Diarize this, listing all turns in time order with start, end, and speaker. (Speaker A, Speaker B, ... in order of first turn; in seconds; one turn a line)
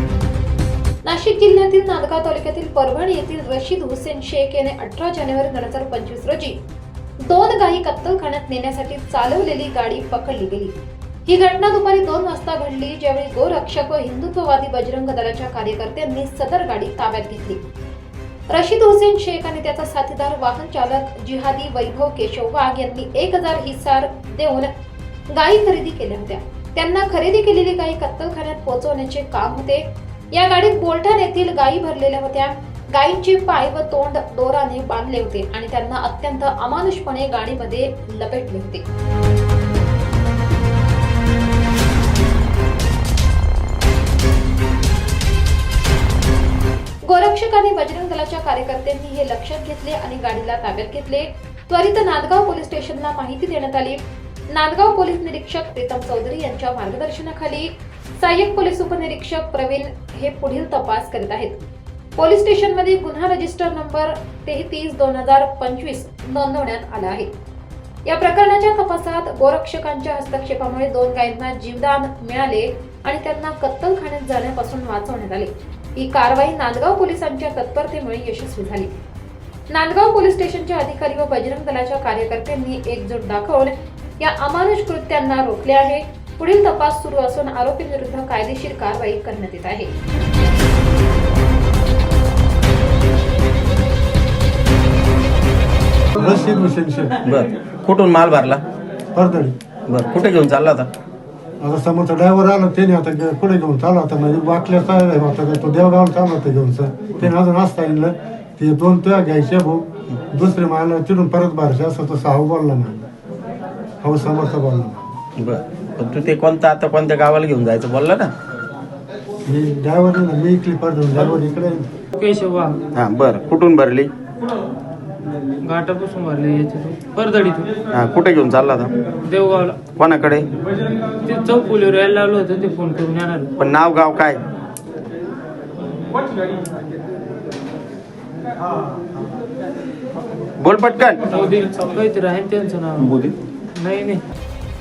Speaker A: 1.0-6.6
Speaker A: 7.2-17.6
Speaker A: 18.5-24.7
Speaker A: 25.3-38.8
Speaker A: 47.0-61.6
Speaker A: 62.2-67.3
Speaker A: 68.0-78.9
Speaker A: 79.7-89.9
Speaker B: 96.2-97.2
Speaker C: 97.2-98.6
Speaker B: 99.1-99.6
Speaker C: 99.9-100.9
Speaker B: 101.6-113.0
Speaker B: 114.0-115.0
Speaker C: 115.4-118.3
Speaker B: 119.5-121.9
Speaker D: 122.2-122.8
Speaker C: 123.0-124.1
Speaker D: 125.6-127.7
Speaker C: 127.9-128.9
Speaker D: 129.2-129.8
Speaker C: 130.0-130.5
Speaker D: 131.2-133.5
Speaker C: 133.6-134.4
Speaker C: 140.6-141.2
Speaker D: 141.3-144.2